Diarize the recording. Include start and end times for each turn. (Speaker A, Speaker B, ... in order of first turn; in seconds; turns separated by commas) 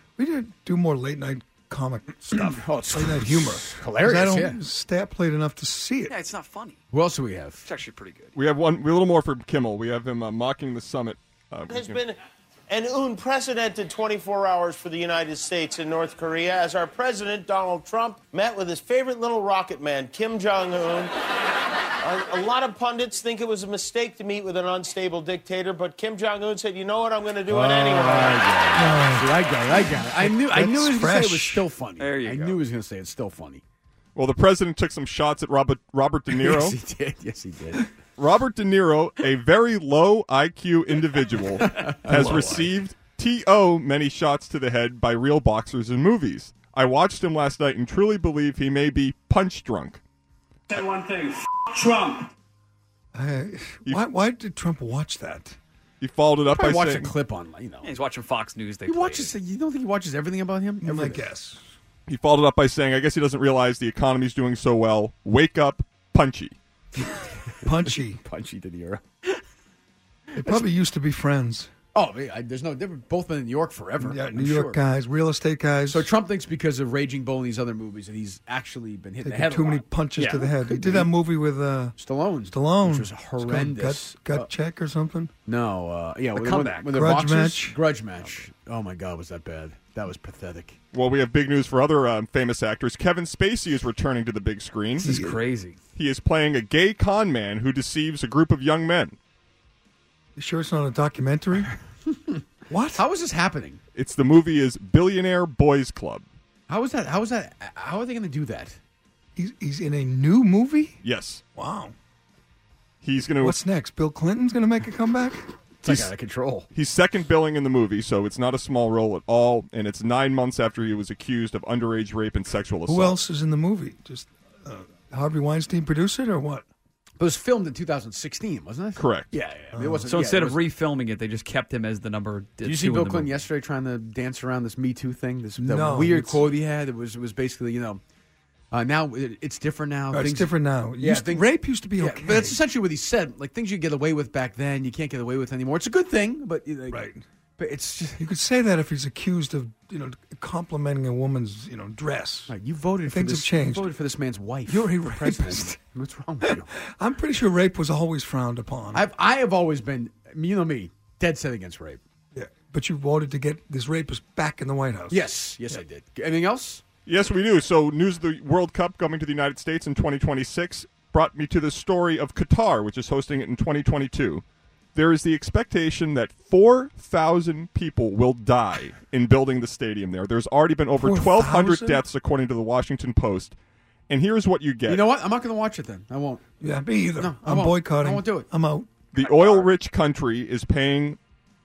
Speaker A: 0.2-6.1, Speaker B: 2.3-4.6, Speaker C: 6.1-6.8, Speaker B: 6.9-7.7, Speaker C: 7.7-8.3, Speaker D: 8.3-12.0, Speaker E: 11.7-12.2, Speaker E: 12.7-21.1, Speaker E: 22.0-28.4, Speaker B: 27.5-33.6, Speaker A: 28.7-31.7, Speaker C: 32.0-32.6, Speaker D: 34.1-36.8, Speaker B: 36.3-37.9, Speaker D: 38.2-50.0, Speaker B: 41.7-42.5, Speaker A: 42.1-42.4, Speaker C: 42.2-42.6, Speaker A: 53.1-55.6, Speaker D: 56.0-57.1, Speaker B: 56.5-57.9, Speaker C: 57.8-59.3, Speaker B: 58.9-61.2, Speaker A: 60.8-61.6, Speaker D: 62.1-66.5, Speaker B: 67.5-69.0, Speaker A: 67.6-68.2, Speaker A: 70.4-71.7, Speaker B: 70.4-70.7, Speaker B: 71.9-74.8, Speaker A: 74.0-76.1, Speaker B: 75.9-81.1, Speaker A: 79.2-82.0, Speaker B: 82.0-84.5, Speaker A: 82.5-85.3, Speaker B: 85.5-90.8, Speaker C: 86.4-86.8, Speaker A: 86.7-87.8, Speaker D: 90.9-95.1, Speaker C: 95.0-95.8, Speaker A: 95.0-95.4, Speaker D: 96.0-99.2, Speaker A: 100.4-101.7, Speaker B: 102.1-102.4, Speaker A: 102.7-103.0, Speaker B: 103.0-103.8, Speaker D: 104.0-106.3, Speaker B: 106.7-108.8, Speaker A: 109.4-111.0, Speaker D: 111.0-111.4, Speaker A: 111.5-111.9, Speaker D: 113.0-113.6, Speaker A: 113.4-116.0, Speaker B: 115.8-116.7, Speaker D: 116.8-123.2, Speaker A: 122.9-126.7, Speaker B: 127.2-130.6, Speaker D: 129.0-129.3, Speaker A: 129.7-130.1, Speaker C: 130.1-133.3, Speaker B: 132.6-138.0, Speaker A: 135.6-136.5, Speaker B: 138.7-147.0, Speaker A: 140.1-142.6, Speaker A: 146.9-147.2, Speaker B: 147.6-148.2, Speaker A: 148.2-152.5, Speaker B: 152.5-156.7, Speaker A: 153.1-153.9, Speaker A: 154.7-155.8, Speaker A: 156.4-159.1, Speaker B: 158.9-162.0, Speaker A: 162.3-165.3, Speaker B: 165.1-166.8, Speaker D: 167.1-174.4, Speaker D: 174.9-183.6, Speaker A: 181.0-182.0, Speaker D: 184.1-185.1, Speaker B: 184.9-186.4, Speaker A: 186.6-188.9, Speaker B: 187.2-188.5, Speaker D: 189.1-191.2, Speaker B: 189.2-189.7